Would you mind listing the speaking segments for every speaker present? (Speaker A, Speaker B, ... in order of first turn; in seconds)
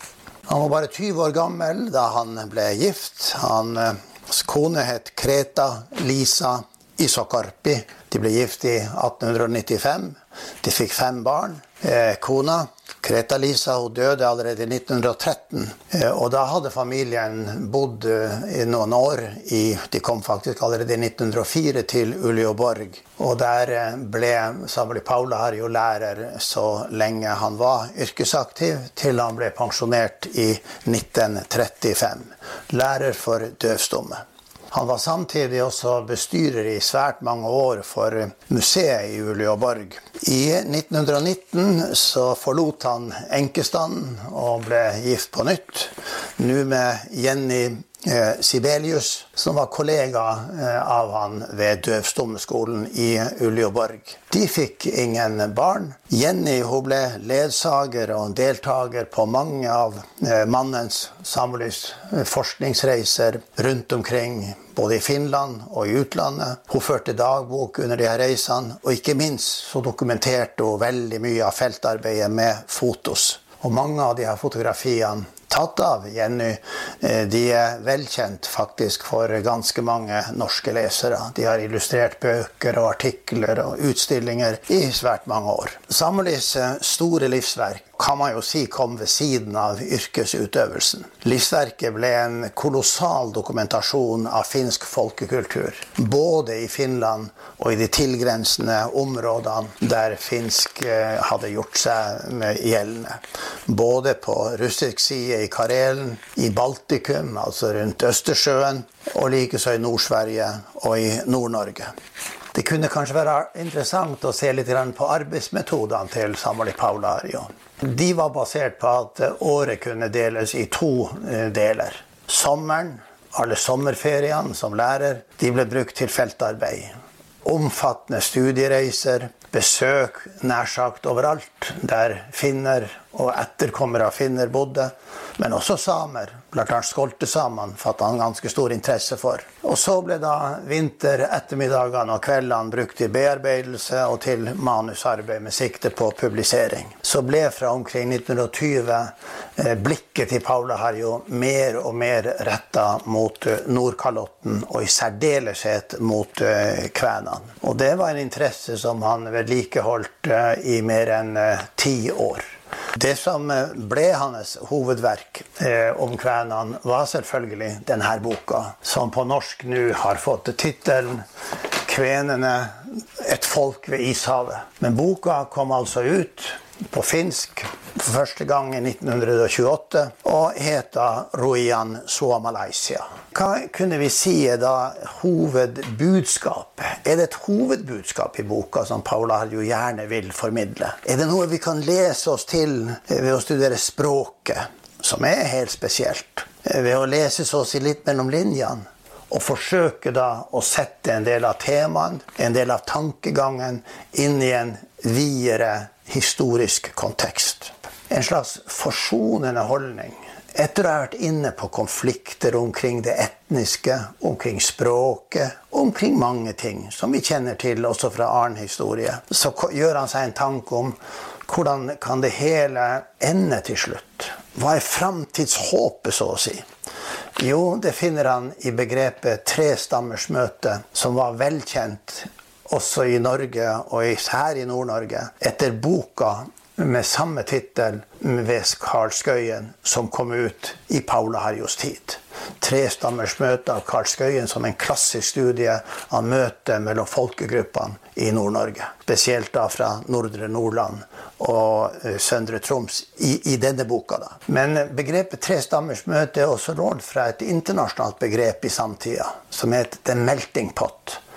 Speaker A: 0.5-111.9, 112.5-171.2, 171.8-226.7, 227.4-261.2